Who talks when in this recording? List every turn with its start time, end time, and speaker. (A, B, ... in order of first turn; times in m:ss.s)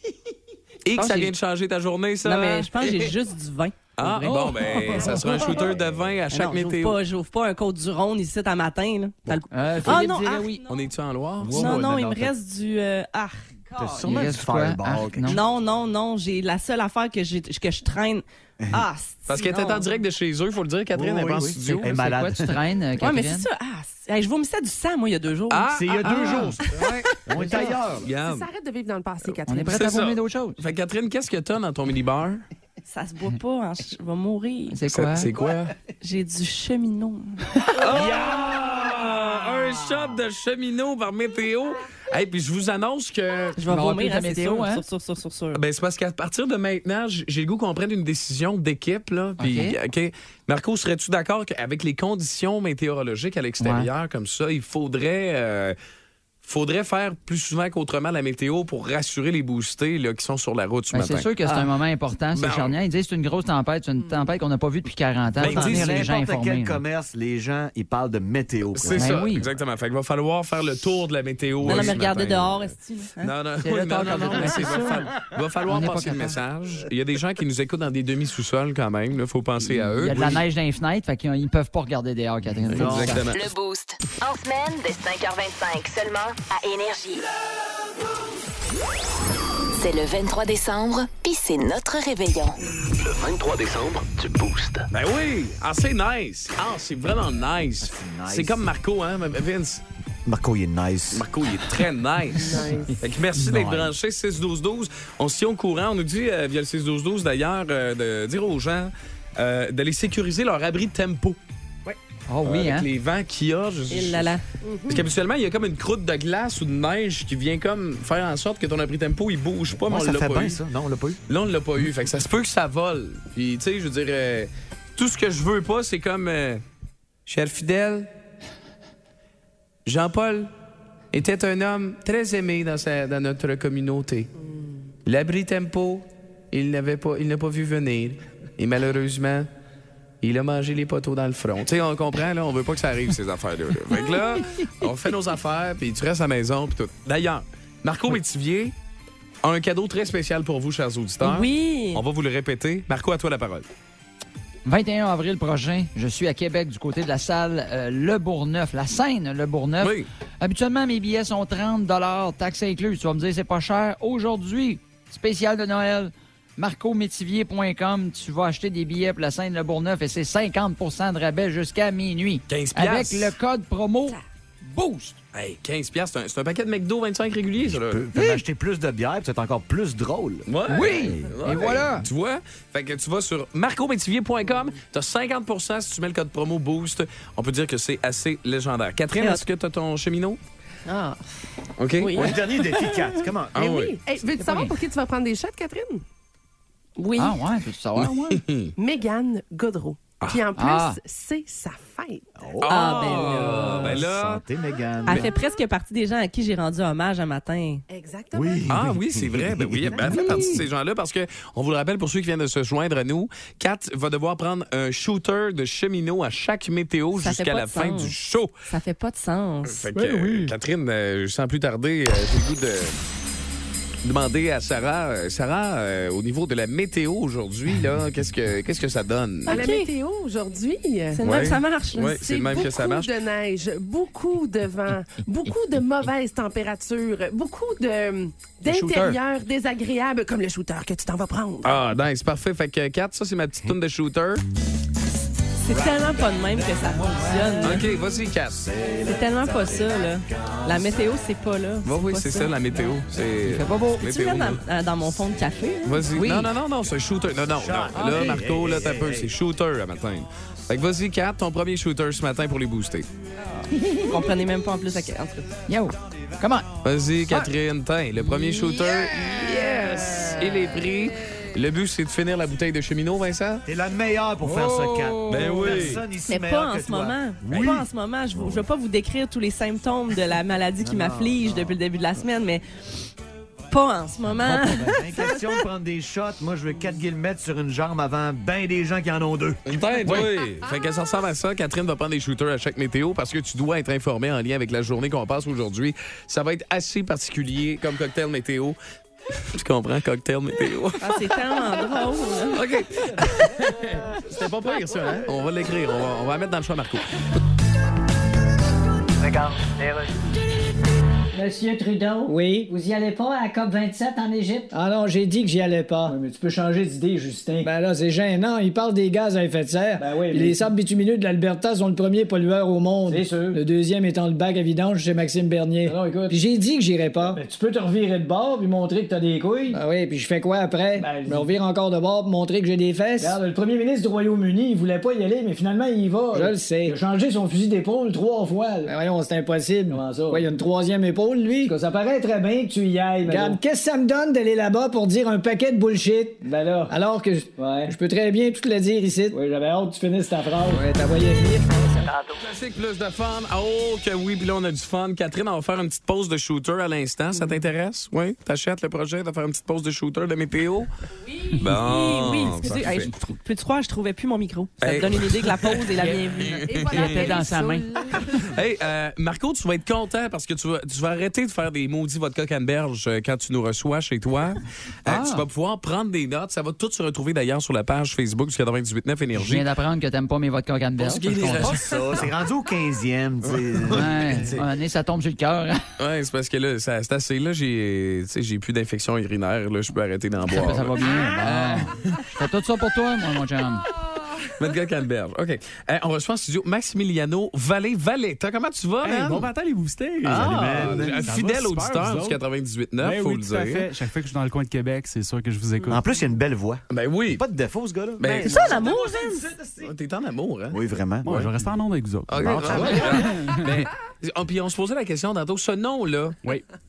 0:00.8-0:03.1 A
0:00.9-0:01.3 B
0:02.2-0:05.5 B
0:04.0-0:07.0 A
0:04.3-0:04.9 C
0:05.2-0:05.5 D
0:05.5-0:06.1 E
0:06.3-0:10.8 B
0:09.5-0:10.6 C
0:10.7-0:12.3 A
0:11.4-0:11.9 E
0:11.5-0:14.0 B
0:13.7-0:15.4 E
0:14.0-0:15.4 C
0:15.2-0:19.9 B
0:18.6-0:18.8 E
0:19.3-0:22.0 A
0:20.9-0:22.6 E
0:21.6-0:23.5 C
0:23.0-0:26.0 B
0:25.5-0:28.5 A
0:25.7-0:26.6 E
0:27.2-0:28.1 E
0:28.1-0:29.9 D
0:29.2-0:32.4 A
0:29.5-0:30.6 C
0:32.9-0:34.8 B
0:34.7-0:35.3 C
0:34.9-0:35.7 A
0:36.0-0:37.8 B
0:37.8-0:43.6 A
0:43.6-0:45.6 B
0:43.6-0:44.8 C
0:45.5-0:55.8 A
0:49.4-0:49.8 C
0:53.6-0:53.9 C
0:56.4-1:01.7 A
1:00.9-1:06.8 C
1:02.3-1:02.8 A
1:05.4-1:09.3 E
1:05.4-1:06.1 A
1:08.7-1:12.6 A
1:09.0-1:09.4 C
1:11.6-1:12.1 E
1:11.6-1:13.3 B
1:13.2-1:20.4 A
1:13.6-1:15.0 C
1:15.7-1:16.4 C
1:19.9-1:23.2 C
1:22.6-1:23.2 E
1:22.7-1:23.4 A
1:23.3-1:27.2 F
1:29.7-1:32.6 F
1:32.9-1:34.9 G
1:34.9-1:39.8 A
1:37.8-1:38.7 E
1:40.2-1:41.3 E
1:41.1-1:51.4 A
1:42.3-1:43.0 D
1:43.4-1:43.9 E
1:52.3-1:52.9 C
1:52.4-1:54.4 A
1:53.9-1:54.4 B
1:54.6-1:55.1 D
1:54.9-2:00.6 A
1:59.7-2:01.2 E
2:01.3-2:06.6 A
2:07.2-2:08.1 A
2:09.8-2:10.5 A
2:11.1-2:14.3 A
2:15.0-2:19.5 A
2:20.2-2:28.7 A
2:29.4-2:33.6 A
2:31.2-2:32.0 B
2:34.6-2:55.2 C
2:39.8-2:40.1 A
2:52.5-2:53.4 A
2:55.3-2:58.1 A
2:57.7-3:01.7 E
2:58.1-2:58.4 C
3:00.5-3:10.4 A
3:00.7-3:02.0 C
3:09.1-3:09.4 B
3:10.9-3:11.1 B
3:11.8-3:12.3 A
3:12.0-3:16.0 D
3:12.1-3:13.6 E
3:13.5-3:14.0 A
3:14.4-3:14.7 C
3:17.0-3:17.3 D
3:17.2-3:18.4 C
3:18.0-3:18.7 A
3:18.8-3:22.5 D
3:20.5-3:21.0 C
3:22.4-3:25.3 E
3:22.6-3:24.4 A
3:22.7-3:23.9 B
3:25.0-3:27.8 B
3:27.9-3:28.7 D
3:28.3-3:30.6 E
3:28.7-3:38.5 A
3:29.9-3:30.2 D
3:37.2-3:38.1 B
3:38.7-3:39.9 B
3:39.6-3:43.0 A
3:44.0-3:49.6 A
3:49.5-3:49.9 B
3:49.5-4:01.7 D
3:51.1-3:52.2 B
3:51.2-3:53.1 A
4:01.6-4:04.4 A
4:05.6-4:07.8 B
4:06.6-4:07.4 E
4:07.0-4:07.6 C
4:07.6-4:08.6 A
4:08.6-4:11.0 E
4:09.0-4:12.6 B
4:11.8-4:14.6 A
4:13.4-4:14.1 C
4:14.0-4:16.1 B
4:15.8-4:23.1 A
4:16.1-4:16.5 C
4:17.5-4:19.3 E
4:18.0-4:18.4 C
4:23.4-4:25.5 B
4:25.7-4:26.7 C
4:26.8-4:33.6 A
4:29.5-4:30.7 E
4:33.7-4:38.6 E
4:34.4-4:35.8 C
4:35.3-4:36.0 A
4:36.3-4:42.6 B
4:40.8-4:41.8 E
4:43.7-4:45.6 B
4:44.4-4:49.6 E
4:49.7-4:58.8 A
4:59.5-5:01.4 A
5:01.0-5:02.6 B
5:02.5-5:07.0 A
5:11.3-5:12.4 H
5:12.2-5:14.7 I
5:14.7-5:52.1 H
5:26.3-5:26.6 I
5:31.0-5:31.4 I
5:36.3-5:37.0 I
5:43.3-5:43.6 I
5:52.4-6:00.9 A
6:01.5-6:06.6 B
6:01.6-6:03.1 A
6:04.8-6:07.3 A
6:06.6-6:08.6 D
6:06.8-6:07.9 C
6:08.3-6:19.7 A
6:15.0-6:15.4 C
6:19.3-6:21.8 C
6:21.0-6:22.2 A
6:21.5-6:24.6 E
6:23.9-6:25.8 C
6:26.0-6:32.2 A
6:30.5-6:33.8 C
6:34.6-6:39.5 A
6:39.0-6:42.4 J
6:40.2-6:43.9 A
6:40.2-6:41.2 E
6:43.0-6:46.0 J
6:45.9-6:49.9 E
6:46.9-6:47.4 A
6:48.2-6:48.8 A
6:48.4-6:49.4 B
6:49.8-6:51.5 A
6:50.7-6:51.4 E
6:51.2-6:53.8 J
6:52.3-6:56.4 A
6:52.4-6:53.1 E